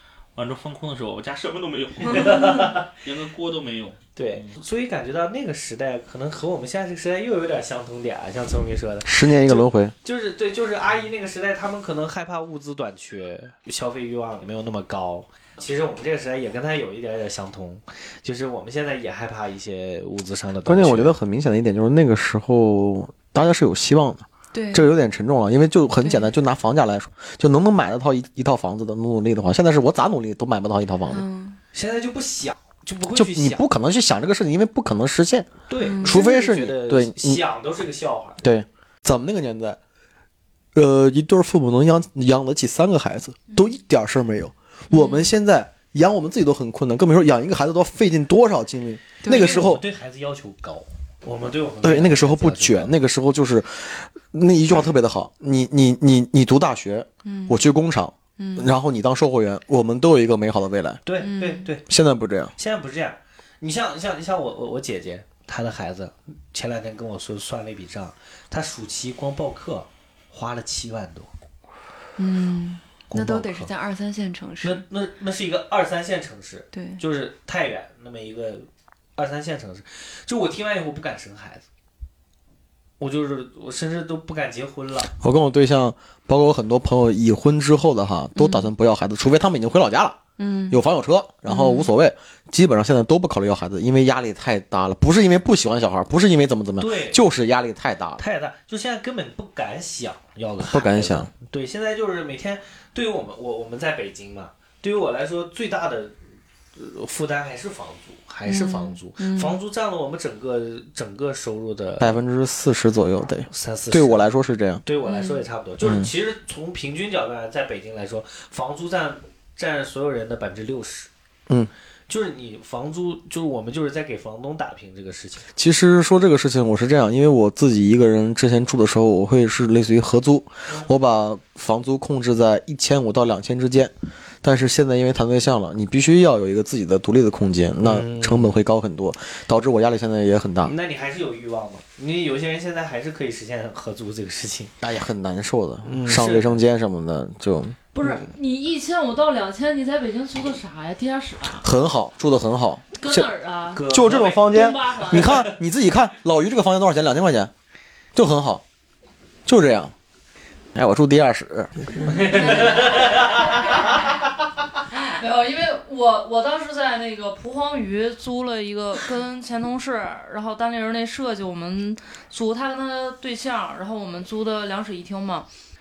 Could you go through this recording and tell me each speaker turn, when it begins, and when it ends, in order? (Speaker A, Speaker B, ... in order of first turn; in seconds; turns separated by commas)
Speaker A: 0.3-4.5, Speaker B: 2.0-2.5, Speaker C: 2.0-2.9, Speaker C: 4.2-21.1, Speaker D: 9.0-9.9, Speaker D: 20.6-31.2, Speaker B: 24.5-24.9, Speaker B: 26.0-26.3, Speaker B: 31.1-31.6, Speaker C: 31.7-33.6, Speaker D: 33.1-37.4, Speaker C: 35.7-38.4, Speaker B: 35.8-36.3, Speaker D: 38.4-39.8, Speaker D: 40.7-49.8, Speaker B: 44.9-45.3, Speaker B: 49.2-49.8, Speaker C: 49.3-52.9, Speaker D: 51.8-61.0, Speaker B: 57.2-57.6, Speaker B: 58.4-58.7, Speaker C: 61.0-61.8, Speaker B: 61.2-61.7, Speaker D: 61.9-62.5, Speaker C: 62.6-71.3, Speaker B: 72.2-74.8, Speaker C: 73.1-73.7, Speaker C: 74.6-81.6, Speaker B: 76.7-77.0, Speaker C: 83.0-85.1, Speaker D: 85.2-98.2, Speaker B: 88.3-88.7, Speaker B: 90.4-90.8, Speaker B: 91.5-91.9, Speaker C: 96.8-97.2, Speaker C: 98.2-106.1, Speaker D: 100.6-101.3, Speaker C: 106.8-112.2, Speaker B: 108.4-109.6, Speaker D: 112.0-114.8, Speaker C: 113.5-114.2, Speaker C: 114.8-121.1, Speaker B: 115.0-115.4, Speaker D: 115.8-116.1, Speaker C: 122.1-125.5, Speaker D: 125.5-140.7, Speaker C: 137.8-138.5, Speaker C: 140.6-144.7, Speaker D: 144.8-147.8, Speaker C: 145.8-146.6, Speaker E: 147.9-151.7, Speaker D: 151.6-153.3, Speaker E: 152.9-153.8, Speaker C: 153.7-155.6, Speaker D: 153.8-157.5, Speaker E: 154.4-155.4, Speaker D: 158.1-158.6, Speaker D: 159.4-159.9, Speaker D: 160.7-161.7, Speaker C: 162.0-164.0, Speaker E: 162.3-164.1, Speaker E: 164.9-175.5